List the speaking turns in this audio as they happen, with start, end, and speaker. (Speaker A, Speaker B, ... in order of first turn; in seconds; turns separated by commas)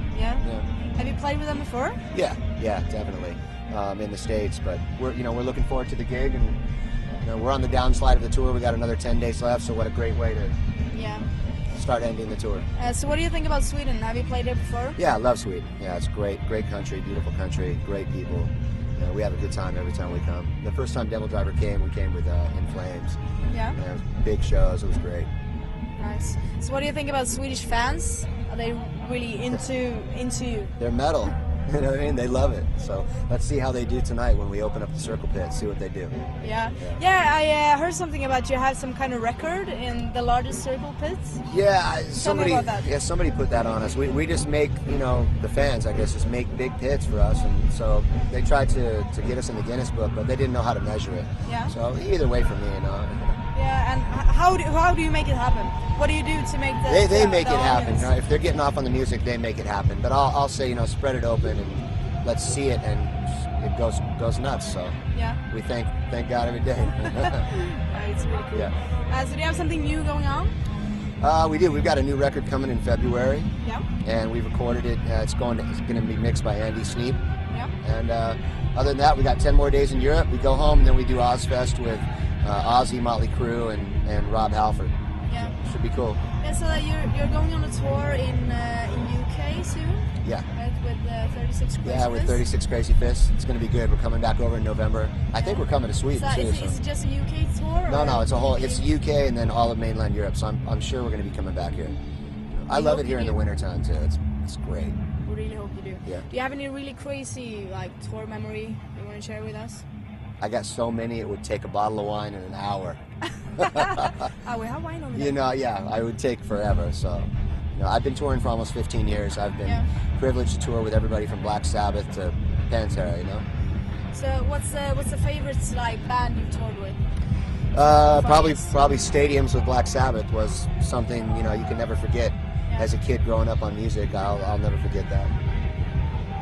Speaker A: 0.1-2.0, Speaker B: 2.1-6.6, Speaker B: 7.2-10.6, Speaker A: 10.9-11.2, Speaker B: 11.7-12.7, Speaker A: 12.8-15.0, Speaker B: 15.0-23.2, Speaker A: 23.5-23.8, Speaker B: 23.7-25.3, Speaker A: 26.0-30.8, Speaker B: 30.8-37.0, Speaker A: 36.4-41.4, Speaker B: 41.5-53.4, Speaker A: 42.1-42.9, Speaker A: 51.5-51.7, Speaker A: 53.5-58.1, Speaker B: 56.9-65.0, Speaker A: 65.1-65.4, Speaker B: 65.5-67.5, Speaker A: 67.2-70.5, Speaker B: 71.2-73.5, Speaker B: 74.0-77.2, Speaker B: 77.8-84.9, Speaker A: 85.3-85.5, Speaker B: 85.6-86.2, Speaker A: 86.4-92.4, Speaker B: 91.8-96.8, Speaker A: 95.4-98.9, Speaker B: 97.9-102.0, Speaker B: 102.6-105.0, Speaker A: 102.7-103.4, Speaker A: 105.2-109.8, Speaker B: 110.4-113.0, Speaker B: 113.6-114.1, Speaker A: 113.6-115.3, Speaker B: 115.1-123.4, Speaker A: 119.6-119.9, Speaker A: 124.1-127.0, Speaker B: 127.7-135.3, Speaker A: 128.1-128.7